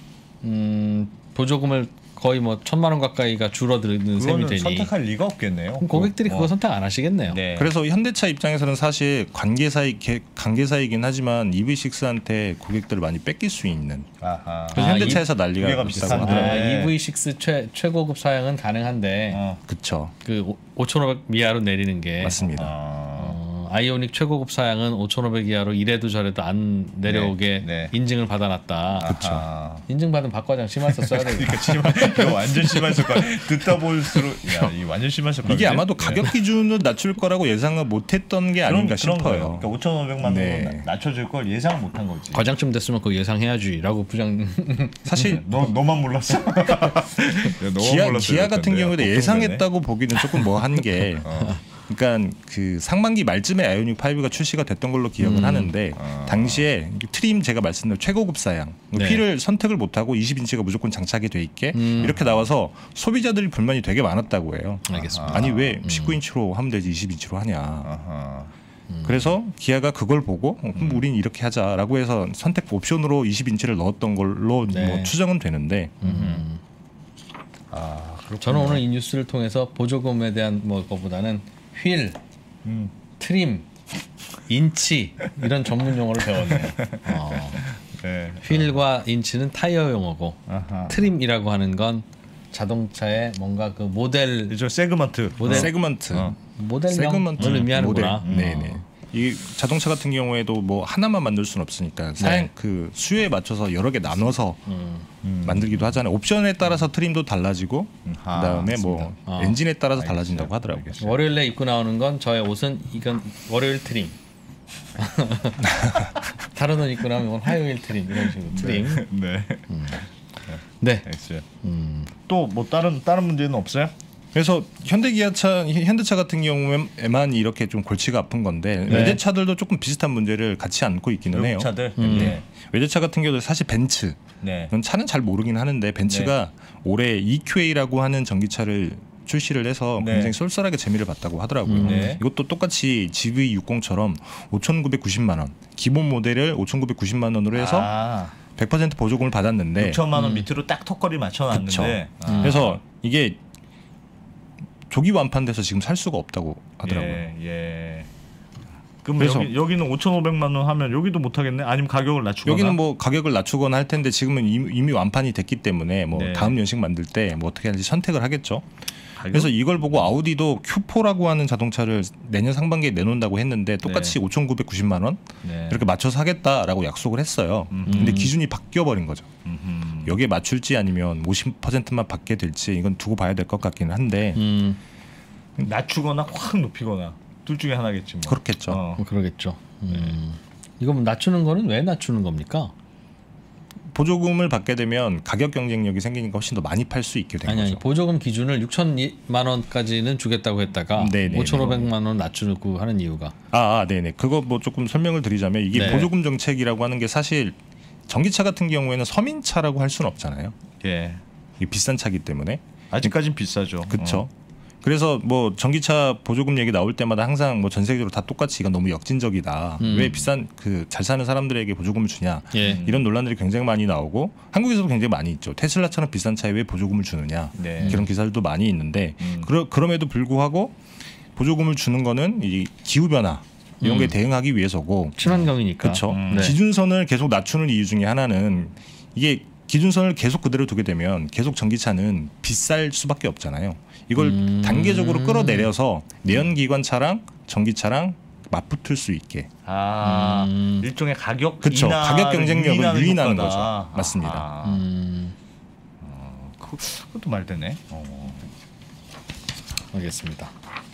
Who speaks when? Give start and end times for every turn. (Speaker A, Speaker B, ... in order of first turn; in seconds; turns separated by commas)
Speaker A: 0.4-4.9, Speaker B: 4.2-6.5, Speaker A: 5.8-7.4, Speaker B: 7.3-7.7, Speaker C: 7.5-14.1, Speaker B: 14.2-16.9, Speaker A: 14.7-15.2, Speaker C: 14.7-16.6, Speaker A: 15.9-19.4, Speaker B: 19.3-19.6, Speaker C: 19.7-20.1, Speaker A: 20.2-22.4, Speaker C: 22.2-22.7, Speaker B: 22.5-23.4, Speaker A: 23.2-29.1, Speaker B: 27.1-27.9, Speaker B: 29.0-29.9, Speaker C: 29.0-29.4, Speaker A: 29.9-34.7, Speaker B: 30.9-36.2, Speaker C: 35.4-39.6, Speaker B: 38.6-42.5, Speaker C: 40.2-40.9, Speaker A: 42.3-45.1, Speaker C: 45.1-45.4, Speaker B: 45.2-49.6, Speaker C: 47.8-51.3, Speaker B: 51.2-51.6, Speaker C: 51.9-67.9, Speaker A: 55.2-55.7, Speaker B: 56.0-56.6, Speaker A: 58.9-59.2, Speaker A: 61.7-62.1, Speaker B: 62.0-62.4, Speaker A: 64.9-66.2, Speaker B: 65.1-65.7, Speaker B: 67.8-68.5, Speaker A: 68.9-69.3, Speaker C: 69.0-76.0, Speaker B: 70.7-71.0, Speaker A: 74.7-75.1, Speaker A: 76.0-76.6, Speaker B: 76.0-76.4, Speaker B: 77.7-78.8, Speaker A: 78.4-82.2, Speaker B: 82.6-82.9, Speaker A: 83.2-83.7, Speaker A: 84.5-87.6, Speaker B: 86.5-88.8, Speaker A: 88.4-94.6, Speaker B: 90.5-91.0, Speaker B: 94.5-96.3, Speaker A: 95.4-95.7, Speaker C: 95.5-96.3, Speaker A: 96.4-98.8, Speaker C: 96.9-104.6, Speaker B: 97.4-97.7, Speaker B: 98.2-98.7, Speaker A: 102.2-102.5, Speaker A: 104.7-105.1, Speaker B: 105.2-106.0, Speaker C: 105.4-110.9, Speaker B: 108.0-109.2, Speaker A: 109.2-109.6, Speaker B: 110.0-111.2, Speaker A: 111.0-114.2, Speaker A: 115.0-115.6, Speaker C: 115.6-116.0, Speaker A: 116.5-119.1, Speaker B: 118.5-121.5, Speaker A: 119.7-120.0, Speaker A: 120.8-121.1, Speaker A: 121.6-122.1, Speaker B: 122.3-123.9, Speaker C: 124.3-147.9, Speaker A: 128.9-129.2, Speaker B: 128.9-129.1, Speaker B: 131.3-132.4, Speaker A: 132.0-132.4, Speaker B: 134.4-134.7, Speaker B: 136.1-136.3, Speaker B: 140.0-140.3, Speaker A: 141.7-142.1, Speaker B: 141.8-142.2, Speaker B: 147.5-148.3, Speaker C: 148.6-150.0, Speaker B: 149.8-152.7, Speaker A: 150.1-150.4, Speaker C: 151.5-153.4, Speaker A: 152.2-152.8, Speaker C: 154.9-157.2, Speaker B: 156.8-158.1, Speaker B: 159.0-162.8, Speaker C: 159.2-159.5, Speaker C: 162.4-168.7, Speaker B: 166.1-166.6, Speaker B: 169.2-170.1, Speaker C: 169.3-179.3, Speaker B: 173.8-174.2, Speaker B: 175.4-175.9, Speaker B: 177.7-178.2, Speaker A: 177.9-178.3, Speaker B: 179.4-180.2, Speaker C: 180.0-184.4, Speaker A: 184.3-184.8, Speaker B: 185.6-189.0, Speaker C: 188.2-188.8, Speaker A: 189.0-192.7, Speaker B: 189.9-190.2, Speaker C: 193.9-197.8, Speaker A: 197.4-203.3, Speaker C: 200.9-201.9, Speaker C: 203.5-207.6, Speaker A: 205.7-206.1, Speaker C: 208.1-210.6, Speaker B: 210.8-211.2, Speaker C: 211.6-213.1, Speaker B: 212.9-214.2, Speaker C: 213.9-214.3, Speaker C: 214.8-230.8, Speaker A: 219.8-220.2, Speaker A: 222.5-222.8, Speaker B: 222.6-223.0, Speaker B: 227.5-228.1, Speaker A: 227.8-228.1, Speaker B: 229.2-229.5, Speaker C: 231.3-249.5, Speaker A: 233.8-234.1, Speaker A: 235.2-236.6, Speaker B: 236.1-236.5, Speaker A: 244.1-245.7, Speaker B: 249.6-254.8, Speaker A: 250.0-250.9, Speaker C: 251.6-254.4, Speaker A: 254.6-255.3, Speaker B: 256.0-258.5, Speaker A: 259.9-260.5